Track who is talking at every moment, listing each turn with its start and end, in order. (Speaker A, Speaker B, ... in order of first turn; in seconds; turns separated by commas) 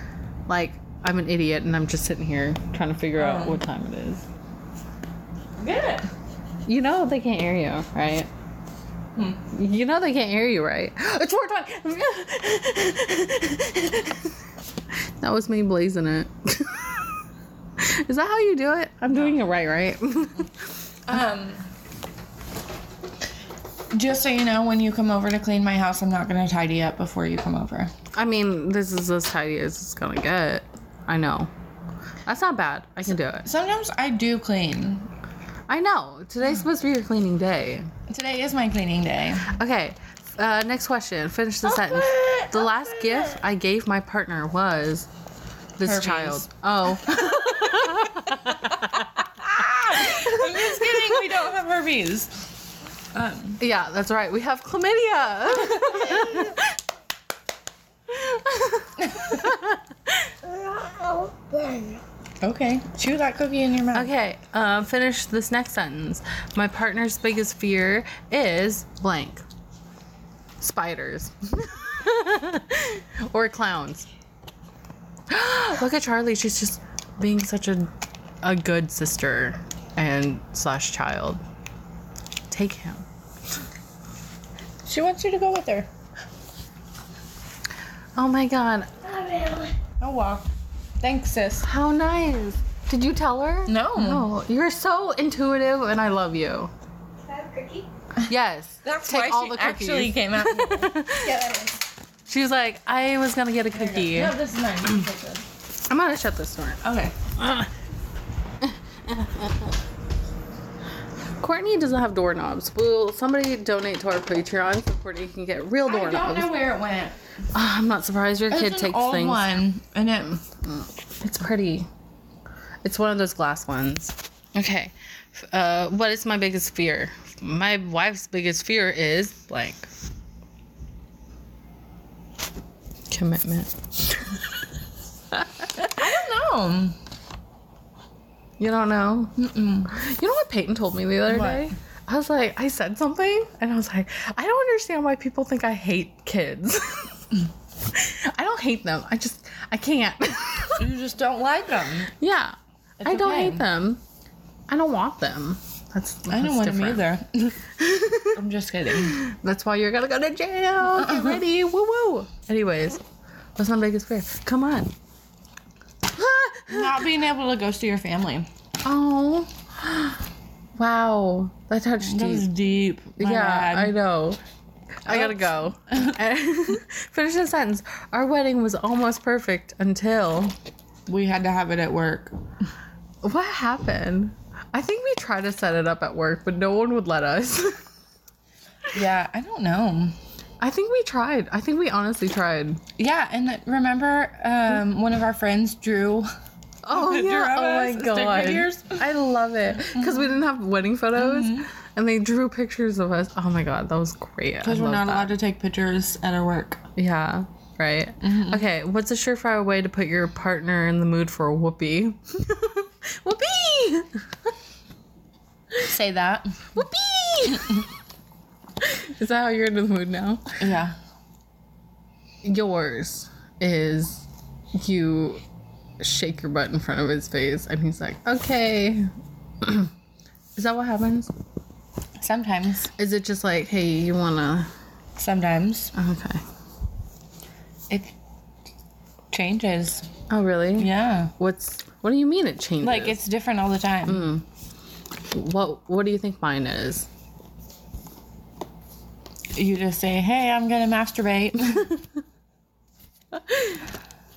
Speaker A: 0.5-4.2, Speaker B: 3.2-3.6, Speaker B: 5.6-6.1, Speaker A: 6.7-8.3, Speaker B: 9.1-9.4, Speaker A: 9.5-14.3, Speaker A: 15.2-17.0, Speaker A: 17.8-20.6, Speaker B: 19.1-19.4, Speaker B: 21.1-21.7, Speaker B: 23.9-27.9, Speaker A: 28.1-31.5, Speaker A: 32.2-33.5, Speaker B: 33.4-35.1, Speaker A: 35.7-37.9, Speaker B: 38.1-39.5, Speaker A: 39.5-45.1, Speaker B: 41.6-43.4, Speaker A: 45.8-49.1, Speaker B: 45.8-46.5, Speaker B: 47.0-48.3, Speaker B: 49.4-52.5, Speaker A: 49.9-51.0, Speaker B: 53.1-53.6, Speaker A: 53.6-56.8, Speaker B: 55.9-56.2, Speaker A: 58.1-60.3, Speaker B: 59.0-59.5, Speaker C: 60.6-62.0, Speaker B: 62.4-64.1, Speaker A: 63.9-69.4, Speaker A: 70.6-74.1, Speaker A: 75.3-77.9, Speaker A: 78.4-81.4, Speaker A: 82.5-83.0, Speaker B: 84.8-85.9, Speaker A: 88.2-88.9, Speaker C: 89.1-89.7, Speaker B: 89.9-91.7, Speaker A: 91.6-96.7, Speaker B: 93.7-94.3, Speaker C: 97.2-97.9, Speaker A: 98.3-101.4, Speaker B: 98.8-101.7, Speaker A: 102.3-104.3, Speaker B: 103.7-105.5, Speaker A: 105.9-106.8, Speaker B: 106.8-107.2, Speaker A: 107.3-107.7, Speaker A: 108.6-109.7, Speaker A: 111.4-116.5, Speaker B: 115.8-117.2, Speaker A: 117.5-119.5, Speaker B: 118.5-120.4, Speaker A: 120.6-121.9, Speaker A: 122.8-129.9, Speaker A: 133.1-134.4, Speaker A: 135.3-135.7, Speaker B: 135.8-137.0, Speaker A: 138.6-147.3, Speaker B: 139.4-139.9, Speaker B: 141.3-141.6, Speaker A: 147.9-150.9, Speaker B: 150.8-152.1, Speaker A: 152.1-154.0, Speaker B: 153.0-153.6, Speaker A: 154.7-157.0, Speaker B: 156.3-157.6, Speaker A: 157.8-158.4, Speaker B: 158.3-159.2, Speaker A: 159.0-163.0, Speaker B: 160.9-161.4, Speaker A: 163.6-164.9, Speaker A: 166.1-167.0, Speaker B: 166.7-168.5, Speaker A: 168.8-170.2, Speaker A: 170.8-172.5, Speaker B: 172.0-173.9, Speaker A: 173.2-174.4, Speaker A: 175.0-180.5, Speaker B: 175.1-176.2, Speaker B: 181.1-182.3, Speaker A: 183.2-187.8, Speaker B: 188.9-190.2, Speaker A: 190.6-192.8, Speaker B: 193.0-196.3, Speaker A: 196.8-205.3, Speaker B: 196.9-199.0, Speaker B: 199.9-200.4, Speaker B: 201.1-201.7, Speaker B: 204.6-206.8, Speaker A: 206.9-214.2, Speaker B: 208.2-208.6, Speaker B: 215.8-216.7, Speaker A: 216.7-217.8, Speaker A: 218.8-220.6, Speaker B: 220.6-220.9, Speaker A: 222.4-225.4, Speaker A: 226.0-229.9, Speaker A: 230.6-231.3, Speaker B: 232.2-232.9, Speaker A: 233.0-234.7, Speaker B: 235.2-235.9, Speaker A: 235.9-236.4, Speaker B: 237.9-238.1, Speaker B: 239.3-240.1, Speaker A: 240.3-243.2, Speaker B: 240.8-241.3, Speaker B: 242.8-244.3, Speaker A: 244.1-244.4, Speaker A: 245.3-247.1, Speaker B: 249.5-251.9, Speaker A: 253.5-253.8